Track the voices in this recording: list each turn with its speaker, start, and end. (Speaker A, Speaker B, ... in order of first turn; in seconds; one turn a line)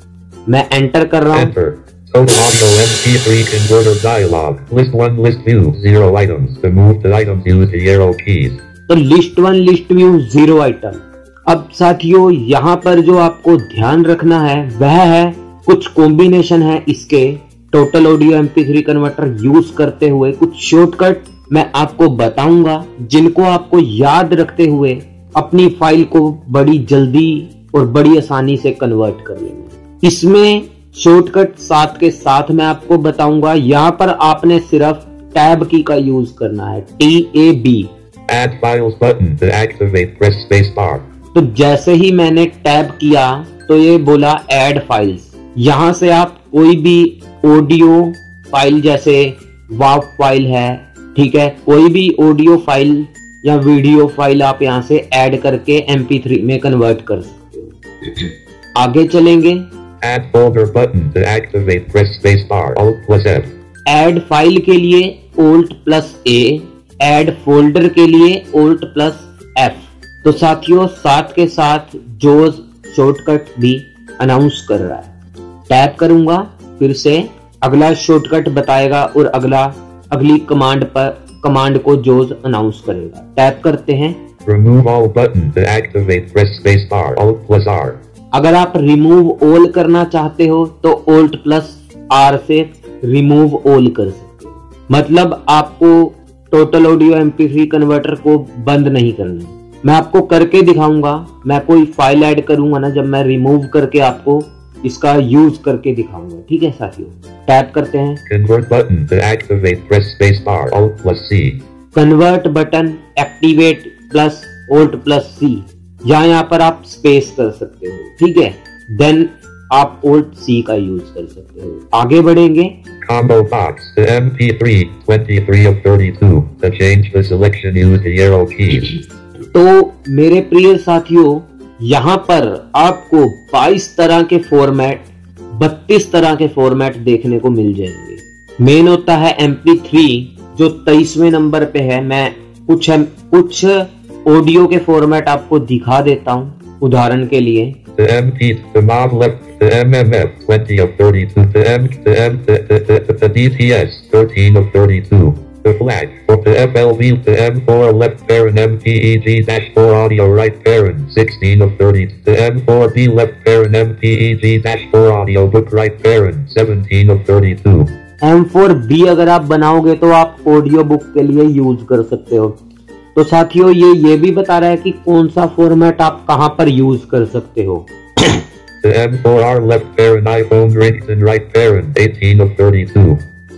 Speaker A: 0.5-1.5
Speaker B: 1.3-8.6
Speaker A: 8.9-37.9
Speaker B: 38.3-41.1
Speaker A: 41.3-59.7
Speaker B: 60.0-63.5
Speaker A: 63.9-75.1
Speaker A: 75.7-84.2
Speaker B: 84.5-88.0
Speaker A: 88.3-108.2
Speaker B: 108.3-111.6
Speaker A: 111.9-122.7
Speaker B: 123.0-128.9
Speaker A: 129.5-147.8
Speaker B: 148.0-167.9
Speaker A: 168.2-172.6
Speaker A: 173.2-178.4
Speaker B: 178.8-183.2